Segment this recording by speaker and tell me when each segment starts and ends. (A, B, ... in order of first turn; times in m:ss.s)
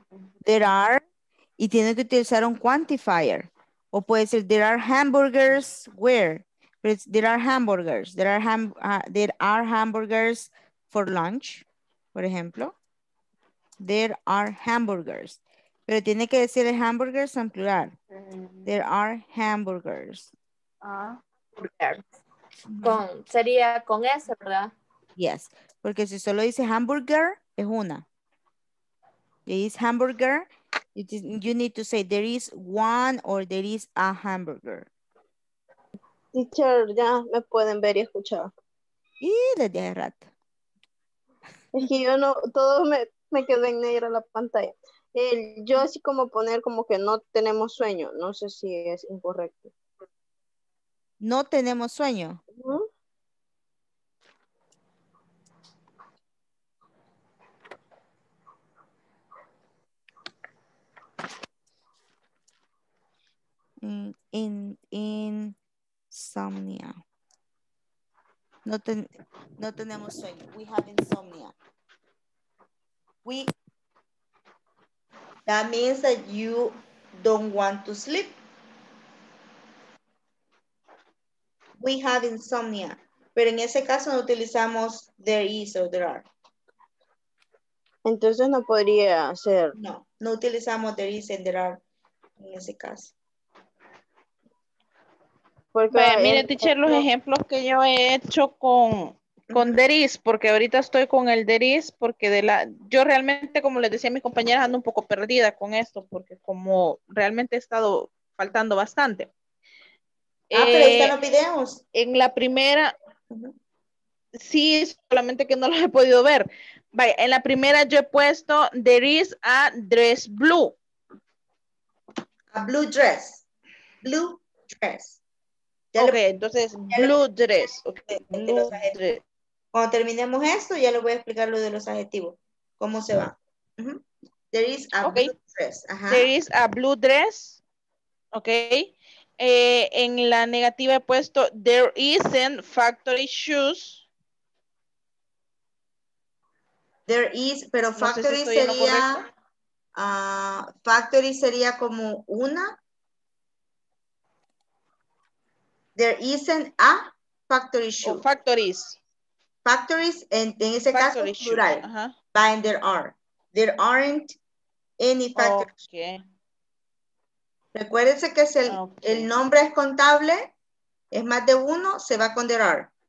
0:00.4-0:01.0 A
0:01.6-0:12.7 A
0:13.8-0:17.9 A
0:18.2-0:18.6 B
0:18.6-0:20.3 A
0:20.8-0:21.2 B
0:21.6-0:22.0 C
0:22.7-0:23.0 A
0:22.8-0:24.7 C
0:25.2-0:28.0 A
0:29.4-0:34.9 A
0:36.3-0:38.5 D
0:39.2-0:40.3 A
0:41.8-0:49.7 D
0:51.2-0:52.4 A
0:52.6-0:52.8 D
1:03.8-1:05.6 A
1:06.1-1:07.0 A
1:08.6-1:11.5 A
1:13.2-1:13.5 A
1:15.4-1:18.3 A
1:21.8-1:26.2 A
1:28.0-1:29.7 D
1:29.8-1:31.8 A
1:32.4-1:33.1 A
1:35.7-1:37.0 D
1:35.9-1:49.3 B
1:50.5-1:51.2 B
1:50.5-1:51.8 A
1:51.9-1:52.9 B
1:54.4-2:00.7 B
2:02.5-2:03.4 A
2:04.0-2:05.2 A
2:06.0-2:09.2 B
2:06.9-2:07.2 A
2:08.3-2:08.9 A
2:09.7-2:16.3 A
2:15.0-2:15.4 B
2:16.1-2:17.6 B
2:18.3-2:24.0 B
2:27.1-2:29.2 A
2:28.0-2:29.2 B
2:30.0-2:32.8 A
2:36.0-2:38.2 A
2:38.0-2:39.0 B
2:39.6-2:44.4 A
2:40.9-2:42.1 B
2:45.0-2:45.7 A
2:45.4-2:46.2 B
2:47.7-2:50.5 A
2:48.7-2:49.3 B
2:51.1-2:52.9 A